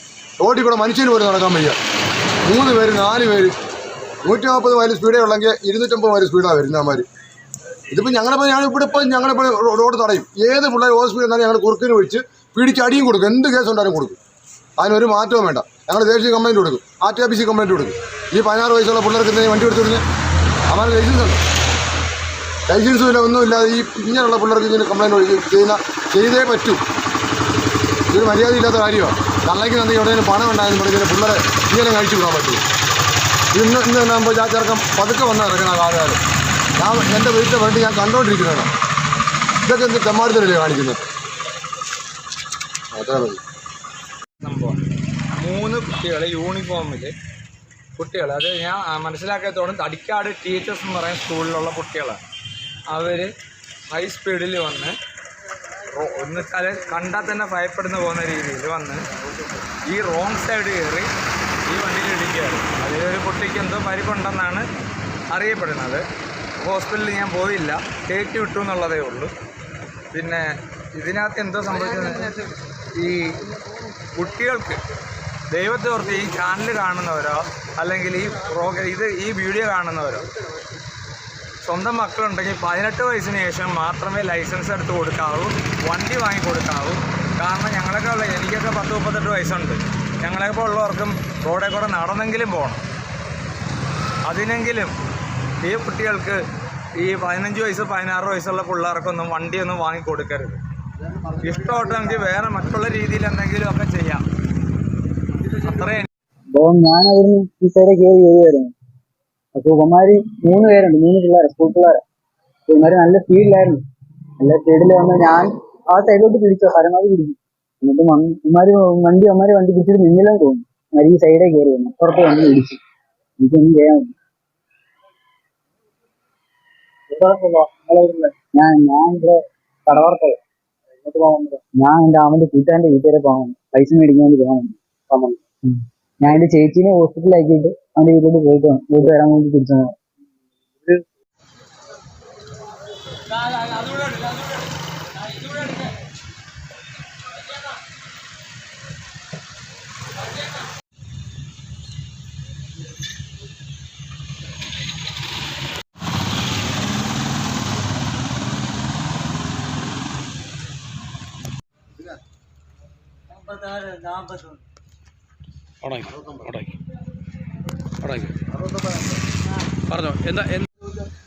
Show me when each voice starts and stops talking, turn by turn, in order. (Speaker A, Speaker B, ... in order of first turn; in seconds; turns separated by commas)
Speaker A: 0.4-1.8, Speaker A: 2.5-3.5, Speaker A: 4.2-7.0, Speaker A: 7.9-14.2, Speaker A: 14.8-20.0, Speaker A: 20.7-21.4, Speaker A: 22.7-26.8, Speaker A: 28.1-32.6, Speaker A: 33.5-36.2, Speaker A: 36.8-38.7, Speaker A: 39.6-41.0, Speaker A: 42.9-43.4, Speaker B: 44.4-44.8, Speaker B: 45.4-47.1, Speaker B: 48.0-52.2, Speaker B: 52.9-53.3, Speaker B: 53.9-54.9, Speaker B: 55.9-59.0, Speaker B: 59.9-61.1, Speaker B: 61.7-64.7, Speaker B: 65.3-66.0, Speaker B: 66.6-69.3, Speaker B: 70.1-73.6, Speaker B: 74.1-74.8, Speaker B: 75.5-80.3, Speaker B: 81.6-92.8, Speaker B: 94.3-95.0, Speaker B: 95.6-96.4, Speaker B: 97.0-100.6, Speaker A: 101.2-102.2, Speaker B: 101.4-104.2, Speaker B: 105.5-106.1, Speaker C: 106.5-108.7, Speaker C: 109.5-112.0, Speaker C: 112.7-113.8, Speaker C: 114.4-122.8, Speaker C: 123.4-124.2, Speaker C: 127.1-130.4, Speaker C: 131.0-140.0, Speaker B: 143.4-144.6, Speaker B: 145.3-145.8, Speaker D: 165.8-166.8, Speaker D: 168.0-168.3, Speaker D: 169.9-170.7